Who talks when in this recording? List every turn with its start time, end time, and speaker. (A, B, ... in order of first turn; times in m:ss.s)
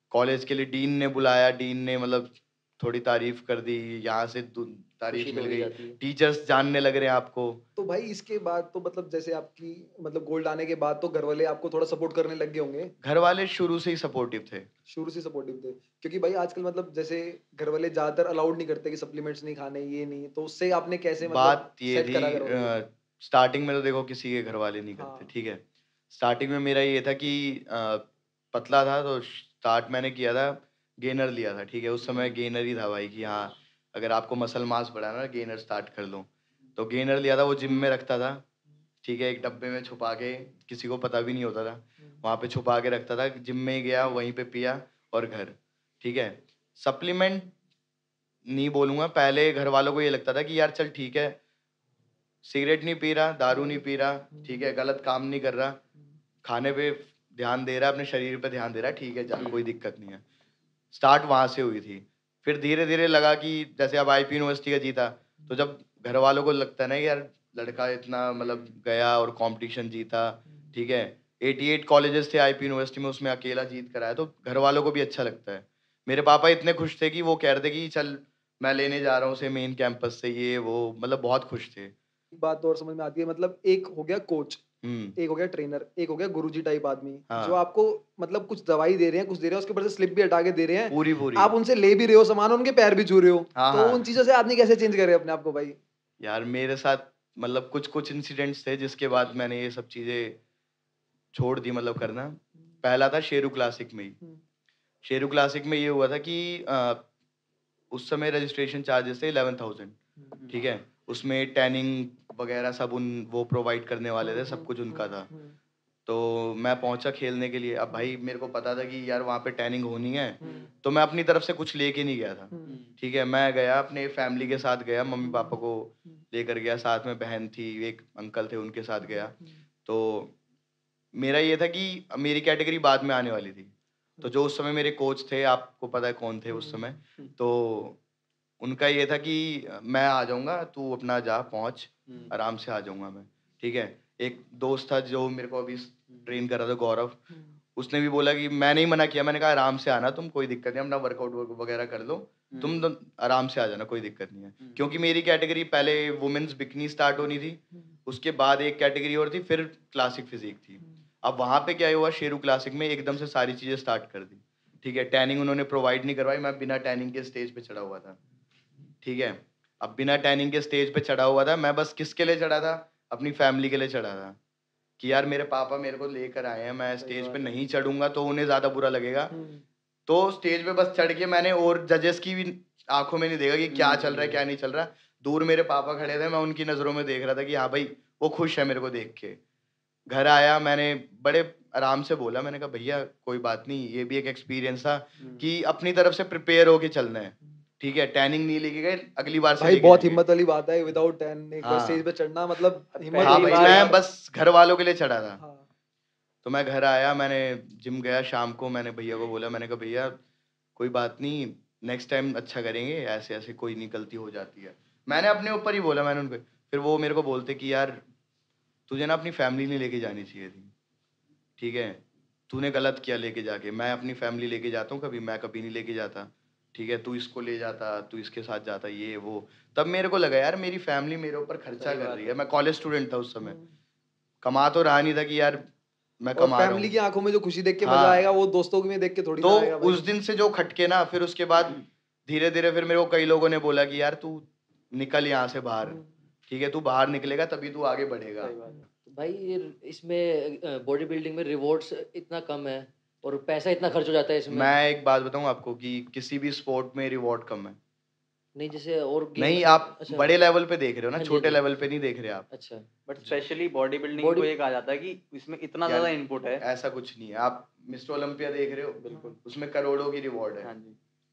0:00.1-0:07.6 A
0:05.1-0:06.0 B
0:07.8-0:12.9 C
0:13.0-0:14.7 A
0:14.9-0:22.7 C
0:21.3-0:38.4 A
0:25.0-0:25.3 C
0:32.1-0:32.3 D
0:39.0-0:47.5 A
0:48.5-0:51.4 A
0:52.4-0:55.8 A
0:56.4-1:00.2 A
0:59.3-0:59.6 D
1:00.9-1:21.9 A
1:22.4-1:24.6 C
1:24.8-1:25.2 A
1:25.2-1:35.8 C
1:27.3-1:27.6 A
1:30.9-1:31.5 A
1:33.6-1:34.0 A
1:36.2-1:40.4 A
1:41.3-1:44.2 A
1:45.0-1:47.0 A
1:47.9-1:50.0 A
1:50.5-1:55.3 A
1:54.2-1:54.7 C
1:55.3-1:55.6 C
1:56.1-2:10.3 A
2:02.5-2:02.8 C
2:02.7-2:02.9 D
2:11.2-2:18.0 A
2:18.6-2:27.2 A
2:27.8-2:48.2 A
2:49.0-2:54.4 A
2:55.0-2:59.3 A
2:57.0-2:57.4 D
2:59.3-2:59.6 C
3:00.1-3:09.4 A
3:03.7-3:04.4 D
3:10.1-3:20.2 A
3:15.2-3:15.5 D
3:19.6-3:24.0 C
3:21.6-3:22.0 A
3:23.0-3:23.9 D
3:23.2-3:25.4 A
3:26.4-3:30.2 A
3:30.8-3:38.0 A
3:38.9-3:40.7 A
3:41.6-3:53.6 A
3:51.8-3:52.2 D
3:54.4-3:55.7 A
3:56.2-3:56.9 A
3:56.4-4:00.1 C
3:57.8-3:58.3 A
3:59.4-4:08.5 A
4:08.4-4:08.8 D
4:09.1-4:14.7 B
4:14.5-4:17.8 A
4:18.6-4:20.3 B
4:19.4-4:22.5 A
4:21.2-4:21.6 B
4:22.5-4:22.9 B
4:23.1-4:26.6 D
4:24.2-4:24.5 B
4:25.8-4:30.7 A
4:29.0-4:29.4 D
4:30.6-4:31.0 D